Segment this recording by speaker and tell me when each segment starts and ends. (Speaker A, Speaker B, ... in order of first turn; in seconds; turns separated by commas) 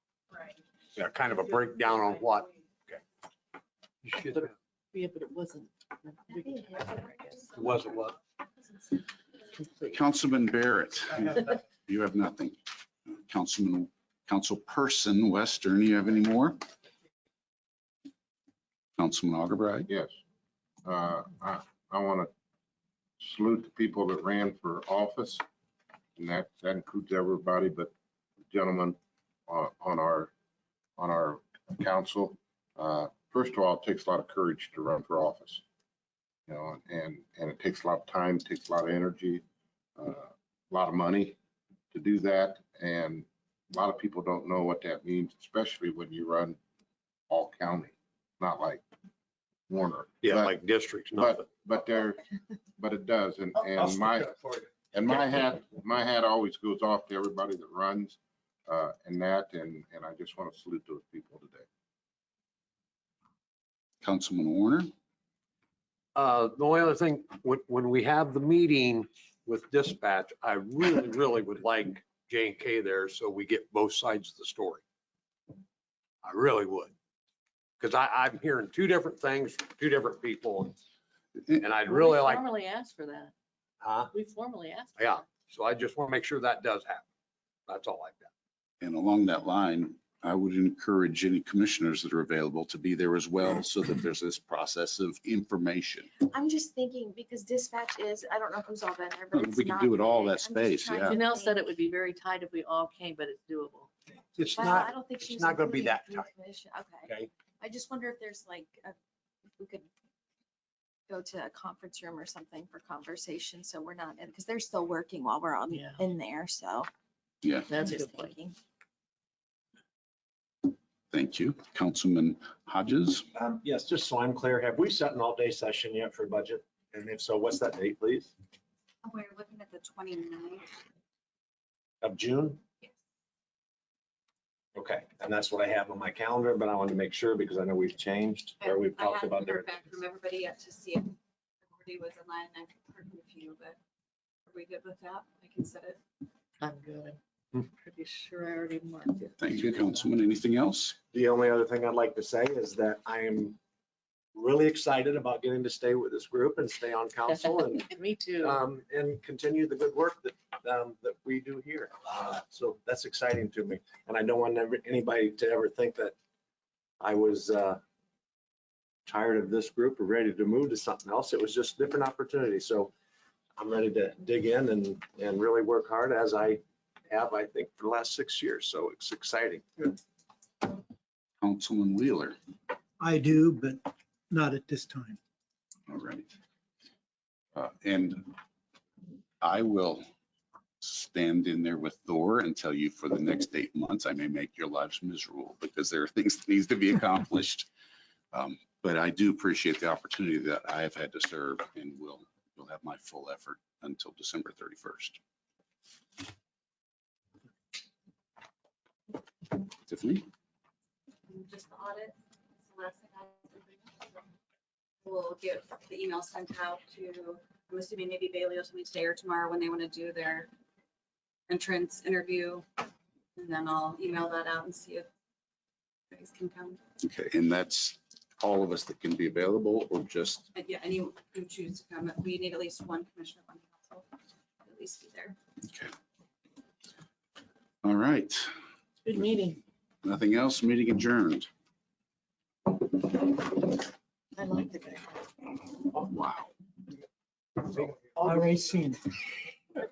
Speaker A: 0.9-3.0, Speaker A: 4.0-4.4, Speaker B: 4.1-6.9, Speaker C: 6.4-7.7, Speaker A: 7.5-8.2, Speaker B: 9.6-9.9, Speaker D: 9.8-12.6, Speaker D: 13.2-16.7, Speaker D: 19.0-19.9, Speaker E: 19.9-20.2, Speaker E: 20.8-22.3, Speaker E: 23.2-25.4, Speaker E: 26.2-27.9, Speaker E: 28.5-29.0, Speaker E: 29.5-30.3, Speaker E: 31.0-35.6, Speaker E: 36.5-39.4, Speaker E: 40.0-41.4, Speaker E: 41.9-46.6, Speaker E: 47.3-48.8, Speaker E: 49.7-50.6, Speaker F: 50.2-51.4, Speaker E: 51.1-52.2, Speaker E: 52.8-54.3, Speaker F: 53.7-54.7, Speaker E: 54.9-61.6, Speaker D: 64.0-64.9, Speaker A: 66.1-74.8, Speaker A: 76.2-76.9, Speaker A: 77.8-80.8, Speaker F: 81.6-82.2, Speaker B: 81.8-83.3, Speaker F: 83.8-84.1, Speaker B: 84.1-85.3, Speaker A: 85.0-86.8, Speaker F: 85.5-87.0, Speaker F: 87.7-88.3, Speaker D: 88.8-96.1, Speaker C: 96.2-101.7, Speaker D: 99.3-101.2, Speaker B: 101.0-103.9, Speaker F: 104.3-106.3, Speaker C: 104.5-109.0, Speaker C: 109.6-109.9, Speaker C: 111.1-116.9, Speaker B: 115.7-116.0, Speaker D: 117.4-117.7, Speaker B: 117.7-118.3, Speaker C: 117.7-118.6, Speaker D: 121.1-123.3, Speaker F: 123.3-128.3, Speaker G: 129.0-130.7, Speaker F: 132.0-132.6, Speaker F: 134.7-140.0, Speaker G: 138.6-141.2, Speaker G: 141.7-143.8, Speaker G: 144.5-146.0, Speaker B: 146.6-150.1, Speaker D: 149.4-151.0, Speaker F: 151.1-153.6, Speaker F: 154.3-166.2, Speaker B: 157.2-158.6, Speaker F: 167.0-167.8, Speaker F: 169.1-172.9, Speaker F: 173.6-179.9, Speaker D: 181.4-182.3, Speaker H: 183.0-185.2, Speaker D: 185.9-186.3, Speaker D: 187.5-188.3, Speaker D: 189.4-190.0, Speaker D: 190.8-197.7, Speaker D: 198.3-205.2, Speaker D: 209.9-210.3, Speaker G: 211.3-214.3, Speaker G: 215.0-220.5, Speaker G: 221.5-222.8, Speaker G: 223.3-225.1, Speaker G: 226.1-226.8, Speaker D: 227.0-230.5, Speaker G: 230.5-234.1, Speaker G: 234.6-235.4, Speaker D: 237.8-238.5, Speaker B: 239.1-239.6, Speaker D: 240.0-241.5, Speaker C: 244.4-245.2, Speaker D: 245.9-246.5, Speaker F: 247.8-248.3, Speaker H: 248.2-249.2